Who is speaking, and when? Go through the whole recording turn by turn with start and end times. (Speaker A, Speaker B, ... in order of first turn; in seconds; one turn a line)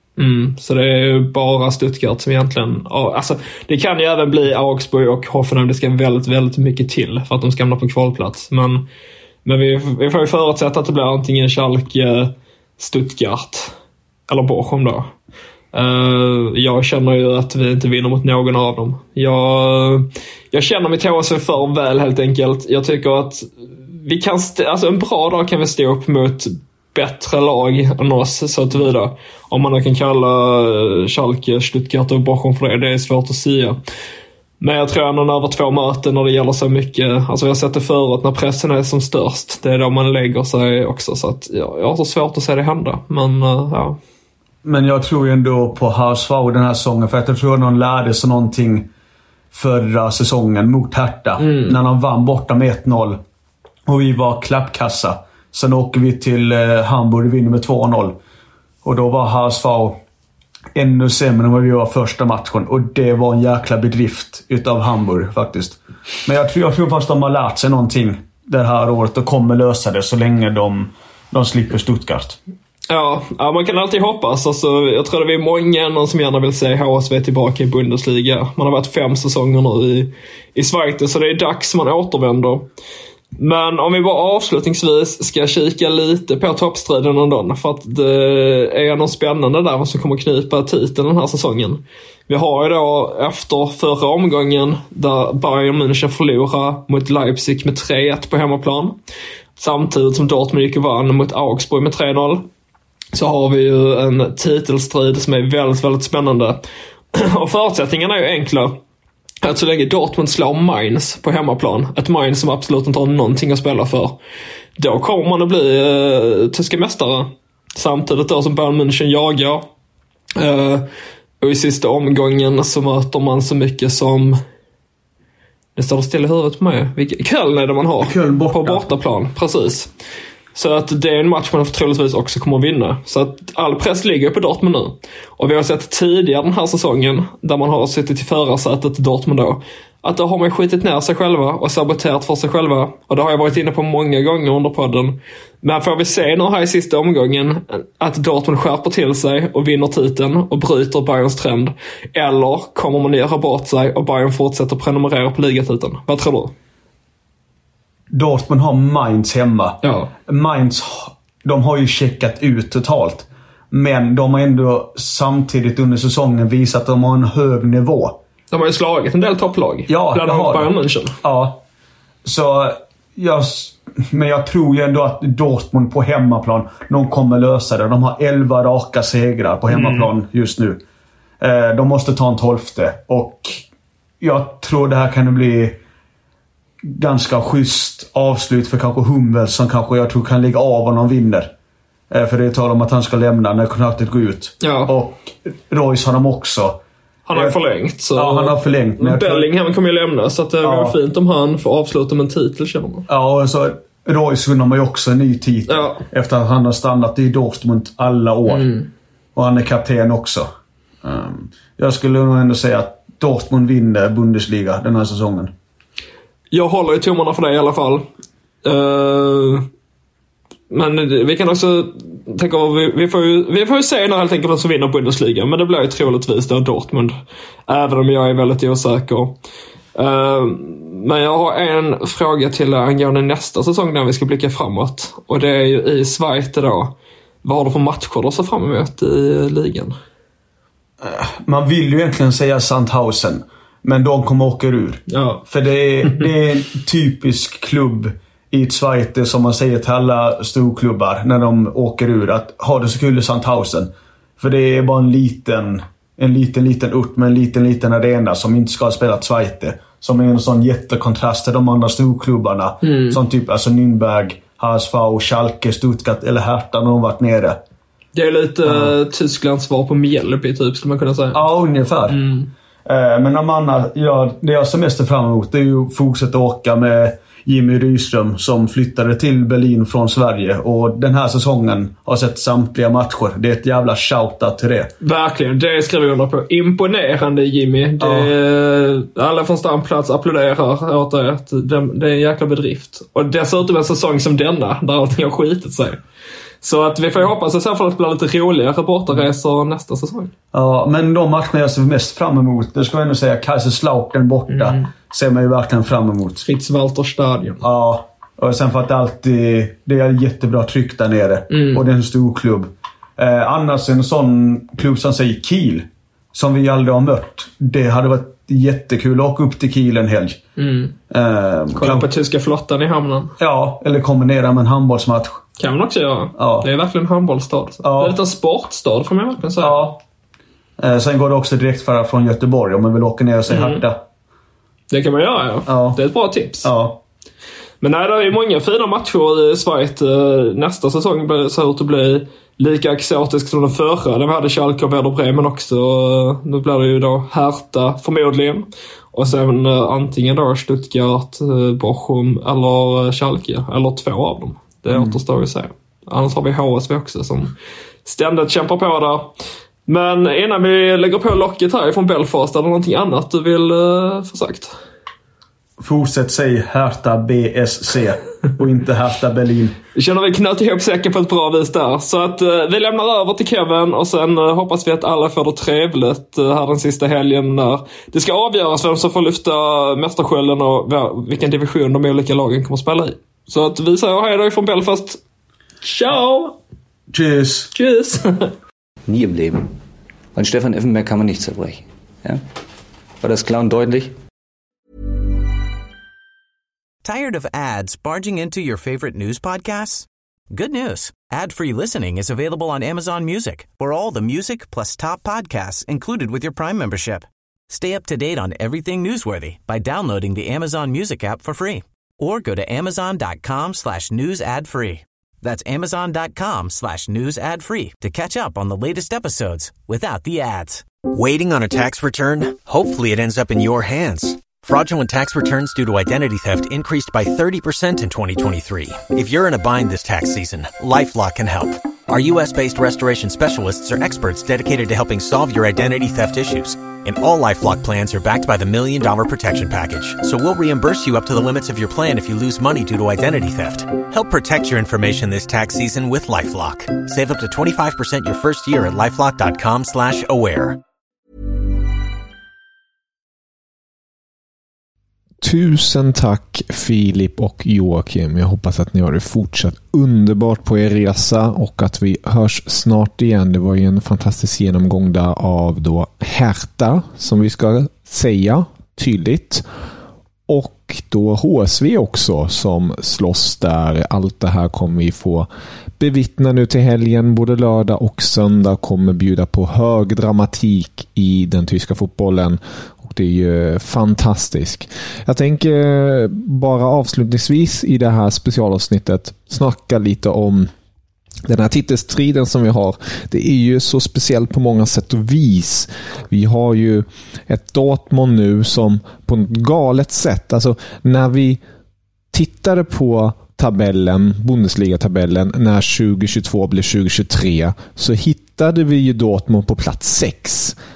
Speaker A: 0.2-8.8
Speaker A: 9.4-13.7
Speaker A: 14.3-15.1
Speaker A: 15.7-33.8
Speaker A: 34.6-44.0
Speaker B: 44.6-48.9
Speaker B: 49.5-53.2
Speaker A: 51.4-51.8
Speaker B: 53.9-58.2
Speaker B: 58.8-60.0
Speaker B: 60.7-72.4
Speaker A: 72.9-82.7
Speaker A: 83.4-99.0
Speaker A: 99.6-102.5
Speaker A: 103.1-106.6
Speaker A: 107.1-108.8
Speaker A: 109.4-114.2
Speaker A: 114.8-119.7
Speaker A: 120.3-120.9
Speaker A: 121.4-124.4
Speaker A: 125.8-129.9
Speaker B: 128.0-128.8
Speaker A: 130.5-156.5
Speaker B: 158.1-168.2
Speaker A: 159.8-160.1
Speaker A: 168.5-171.2
Speaker B: 169.9-171.6
Speaker B: 172.2-180.8
Speaker A: 179.7-180.1
Speaker B: 181.4-183.6
Speaker B: 184.2-185.8
Speaker B: 186.8-191.5
Speaker B: 192.1-196.8
Speaker A: 194.6-194.9
Speaker A: 197.2-203.1
Speaker B: 198.1-199.5
Speaker B: 200.6-201.0
Speaker B: 203.1-208.7
Speaker A: 205.7-206.0
Speaker A: 208.5-208.9
Speaker B: 209.3-210.5
Speaker B: 211.0-215.5
Speaker A: 216.5-218.1
Speaker A: 218.6-219.7
Speaker A: 220.7-227.1
Speaker A: 227.7-229.3
Speaker A: 229.9-236.9
Speaker A: 237.4-239.9
Speaker B: 241.0-267.6
Speaker A: 245.1-245.4
Speaker A: 246.0-246.3
Speaker A: 262.8-263.2
Speaker A: 268.1-271.4
Speaker B: 268.6-268.9
Speaker B: 271.3-272.2
Speaker A: 272.1-272.5
Speaker B: 272.9-284.9
Speaker A: 285.0-296.0
Speaker B: 288.0-288.3
Speaker A: 296.6-300.3
Speaker B: 300.5-306.4
Speaker A: 304.5-304.8
Speaker A: 306.4-307.6
Speaker B: 307.6-320.4
Speaker A: 311.5-311.9
Speaker A: 320.6-320.9
Speaker B: 321.1-322.1
Speaker A: 321.7-323.3
Speaker B: 323.4-325.4
Speaker A: 325.6-329.9
Speaker B: 326.4-326.7
Speaker B: 327.8-328.1
Speaker B: 329.6-330.0
Speaker B: 330.8-334.0
Speaker A: 333.5-333.8
Speaker A: 334.9-336.7
Speaker B: 335.7-336.0
Speaker B: 336.6-337.0
Speaker A: 337.8-357.5
Speaker B: 354.9-355.2
Speaker A: 358.0-359.3
Speaker A: 359.9-364.7
Speaker B: 365.8-369.8
Speaker A: 369.9-385.2
Speaker A: 385.8-386.6
Speaker B: 387.1-387.7
Speaker A: 387.7-388.5
Speaker C: 389.1-389.7
Speaker C: 390.3-392.4
Speaker C: 393.2-394.1
Speaker D: 397.0-420.9
Speaker E: 421.1-450.8
Speaker F: 455.4-469.6
Speaker F: 470.5-475.5
Speaker F: 476.0-490.7
Speaker F: 491.4-501.6
Speaker F: 502.3-510.8